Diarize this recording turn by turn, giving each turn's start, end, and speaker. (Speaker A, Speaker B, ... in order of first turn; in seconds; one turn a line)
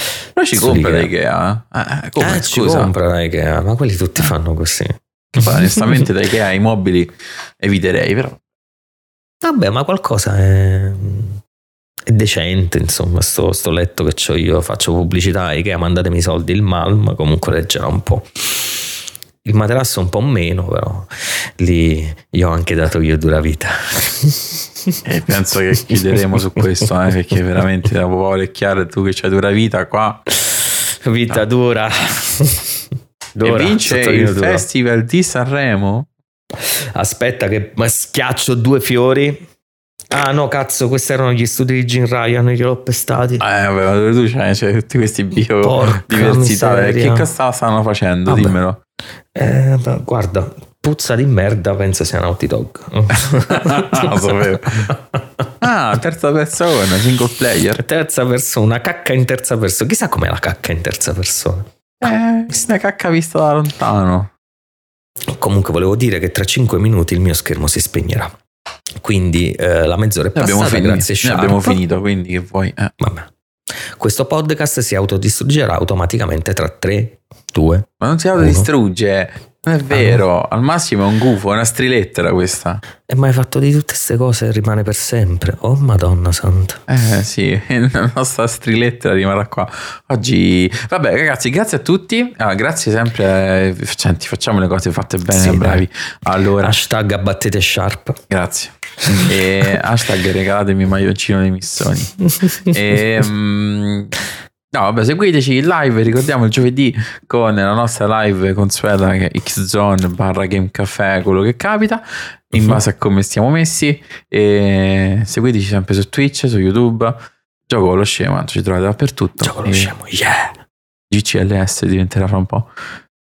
Speaker A: 0.4-2.9
Speaker B: 0.5-1.1
Speaker B: 2.2-6.1
Speaker A: 5.3-8.4
Speaker B: 9.4-11.4
Speaker B: 12.1-18.7
Speaker B: 19.4-25.0
Speaker A: 25.1-30.2
Speaker B: 25.8-26.9
Speaker B: 31.0-32.8
Speaker B: 33.4-34.6
Speaker A: 33.4-36.1
Speaker B: 37.0-39.5
Speaker B: 40.1-43.5
Speaker A: 43.4-48.8
Speaker B: 45.6-47.3
Speaker B: 48.3-48.5
Speaker B: 49.4-55.2
Speaker A: 53.5-54.9
Speaker A: 55.6-57.8
Speaker B: 57.8-61.7
Speaker A: 62.0-64.3
Speaker B: 65.3-68.3
Speaker B: 69.0-71.8
Speaker A: 70.3-72.9
Speaker B: 73.0-73.3
Speaker B: 74.0-78.7
Speaker A: 78.0-82.8
Speaker B: 79.9-80.2
Speaker B: 83.1-86.8
Speaker A: 86.9-96.8
Speaker B: 95.3-95.8
Speaker B: 96.6-98.2
Speaker A: 98.3-104.1
Speaker B: 99.1-99.3
Speaker A: 104.7-119.9
Speaker B: 119.4-120.6
Speaker A: 121.1-122.7